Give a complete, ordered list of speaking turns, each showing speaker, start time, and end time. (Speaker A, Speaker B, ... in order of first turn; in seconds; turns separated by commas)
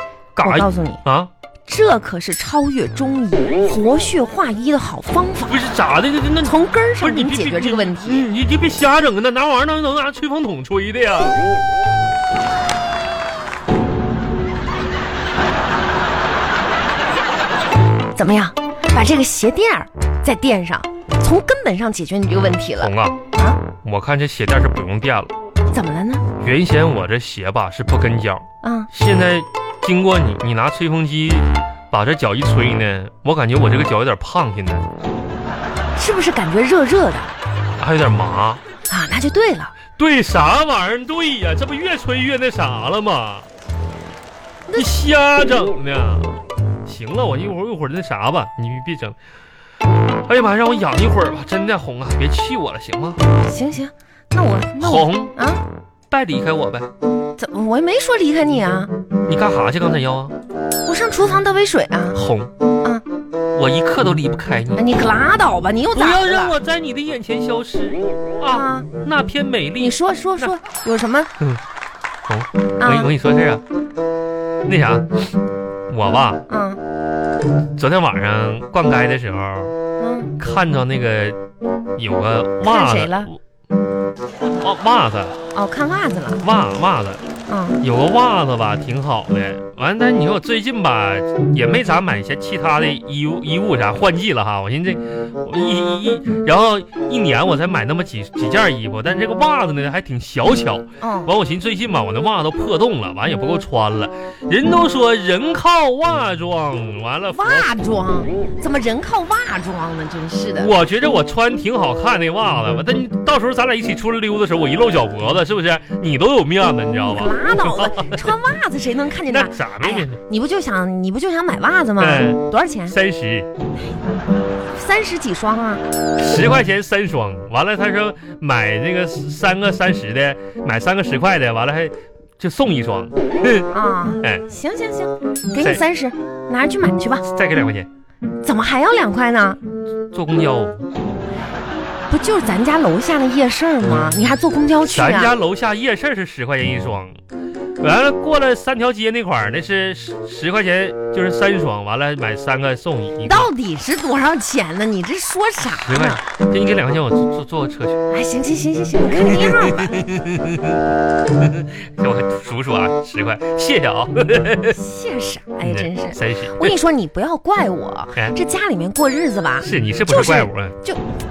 Speaker A: 0.3-1.3, Speaker B: 0.4-1.0, Speaker B: 1.7-5.6, Speaker A: 5.5-11.4, Speaker B: 6.4-8.2, Speaker B: 18.1-23.6, Speaker A: 22.8-23.2, Speaker A: 23.8-25.3, Speaker B: 25.7-26.2, Speaker A: 26.4-34.9, Speaker B: 28.6-28.9, Speaker B: 36.0-37.3, Speaker A: 37.8-38.6, Speaker B: 38.9-39.7, Speaker A: 40.0-43.5, Speaker A: 44.8-46.3, Speaker A: 46.9-49.1, Speaker A: 50.2-53.2, Speaker B: 53.3-55.6, Speaker A: 54.8-55.3, Speaker A: 56.1-56.9, Speaker B: 57.4-58.9, Speaker A: 59.2-60.3, Speaker B: 60.8-62.2, Speaker A: 62.1-62.5, Speaker A: 63.5-64.8, Speaker B: 64.8-66.5, Speaker A: 65.9-70.5, Speaker B: 68.5-68.9, Speaker B: 69.8-71.3, Speaker A: 72.3-73.6, Speaker B: 72.8-73.1, Speaker A: 74.7-75.2, Speaker A: 75.9-76.4, Speaker B: 76.5-76.8, Speaker A: 77.7-79.7, Speaker B: 80.0-80.3, Speaker A: 80.4-81.4, Speaker A: 82.0-83.4, Speaker B: 82.6-83.3, Speaker A: 84.6-85.3, Speaker B: 85.5-86.4, Speaker A: 86.4-87.2, Speaker B: 87.5-87.8, Speaker A: 87.8-107.8, Speaker B: 101.0-101.3, Speaker B: 107.3-110.7, Speaker A: 110.6-118.1, Speaker B: 117.0-123.0, Speaker A: 119.2-120.2, Speaker A: 122.0-123.5, Speaker B: 124.7-125.8, Speaker A: 126.2-133.7, Speaker B: 133.7-137.2, Speaker A: 137.3-137.9, Speaker B: 138.4-139.6, Speaker A: 140.1-140.8, Speaker B: 142.1-145.3, Speaker A: 144.9-147.1, Speaker A: 147.8-153.5, Speaker B: 153.2-156.2, Speaker A: 155.6-158.0, Speaker B: 158.1-160.0, Speaker A: 159.1-164.8, Speaker B: 164.7-171.0, Speaker A: 165.6-166.7, Speaker A: 169.6-170.7